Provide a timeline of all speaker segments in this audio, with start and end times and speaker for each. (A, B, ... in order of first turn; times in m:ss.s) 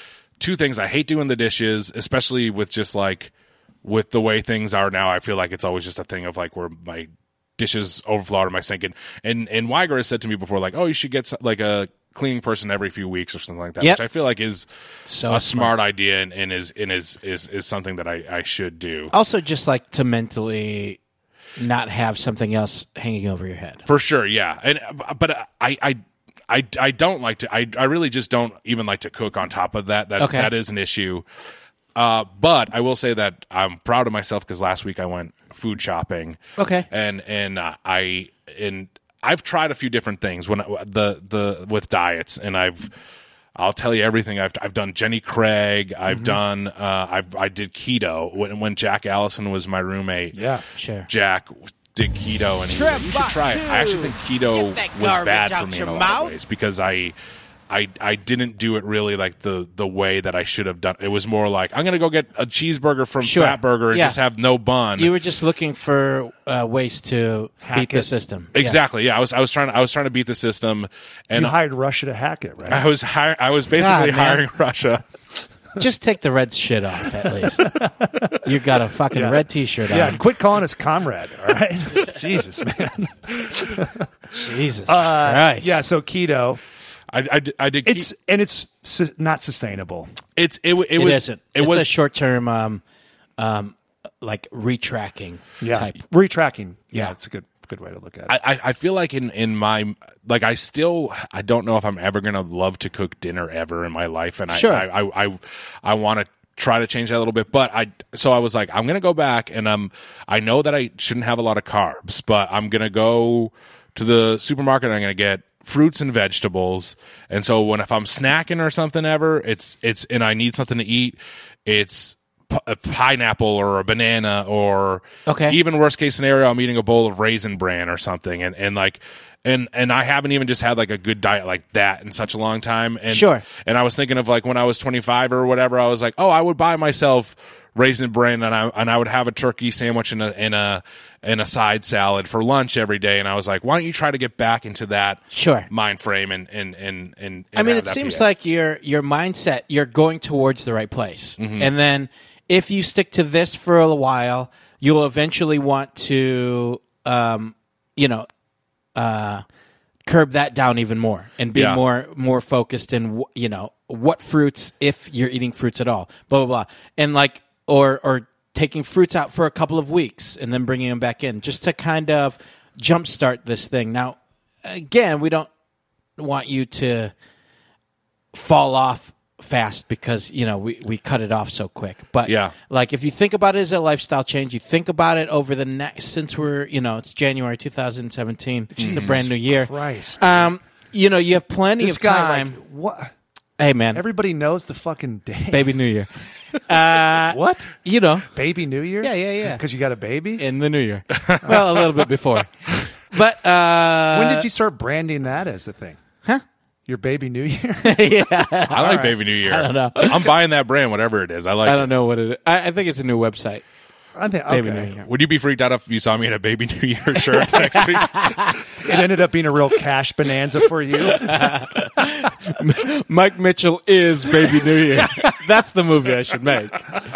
0:00.4-0:03.3 A
0:03.8-0:14.7 A
0:15.1-0:15.7 B
0:15.3-0:19.1 A
0:19.1-0:21.0 B
0:21.6-0:23.8 B
0:23.8-0:31.2 A
0:30.2-0:30.5 B
0:31.9-0:42.9 A
0:36.6-0:36.8 B
0:43.6-0:50.4 A
0:46.1-0:46.4 C
0:50.3-0:50.6 C
0:50.7-0:51.1 B
0:51.1-0:57.1 A
0:52.7-0:56.4 B
0:57.7-1:05.1 A
1:03.2-1:04.2 B
1:05.0-1:08.8 B
1:07.6-1:08.1 C
1:08.5-1:11.5 A
1:11.3-1:12.8 C
1:12.7-1:15.0 A
1:13.7-1:14.4 B
1:15.8-1:17.8 B
1:17.6-1:18.4 C
1:18.4-1:20.2 B
1:19.1-1:24.1 C
1:24.3-1:25.8 B
1:24.8-1:26.6 C
1:27.1-1:28.1 A
1:27.8-1:30.1 C
1:30.4-1:31.9 A
1:30.9-1:32.8 B
1:33.4-1:36.0 B
1:35.6-1:38.4 C
1:38.3-2:28.2 A
1:44.5-1:44.8 B
2:05.2-2:05.6 B
2:13.1-2:13.4 B
2:25.3-2:25.7 B
2:27.5-2:38.3 B
2:31.4-2:31.7 A
2:38.9-2:39.4 B
2:40.0-2:55.5 B
2:41.5-2:41.8 A
2:56.2-2:57.1 B
2:58.3-3:12.5 B
3:02.2-3:02.5 A
3:08.7-3:10.5 C
3:08.8-3:09.2 A
3:11.8-3:13.1 C
3:13.6-3:14.0 B
3:13.9-3:15.8 C
3:15.5-3:18.2 B
3:17.2-3:17.7 C
3:18.3-3:20.4 C
3:19.0-3:19.6 B
3:20.4-3:24.5 B
3:21.1-3:21.9 A
3:24.1-3:26.0 C
3:26.9-3:28.1 C
3:27.8-3:30.3 B
3:28.7-3:31.9 A
3:28.7-3:29.1 C
3:31.6-3:33.6 B
3:34.2-3:34.9 C
3:34.5-3:35.1 B
3:35.0-3:38.6 A
3:37.5-3:38.5 B
3:38.8-3:41.6 C
3:41.1-3:47.0 B
3:45.0-3:45.3 C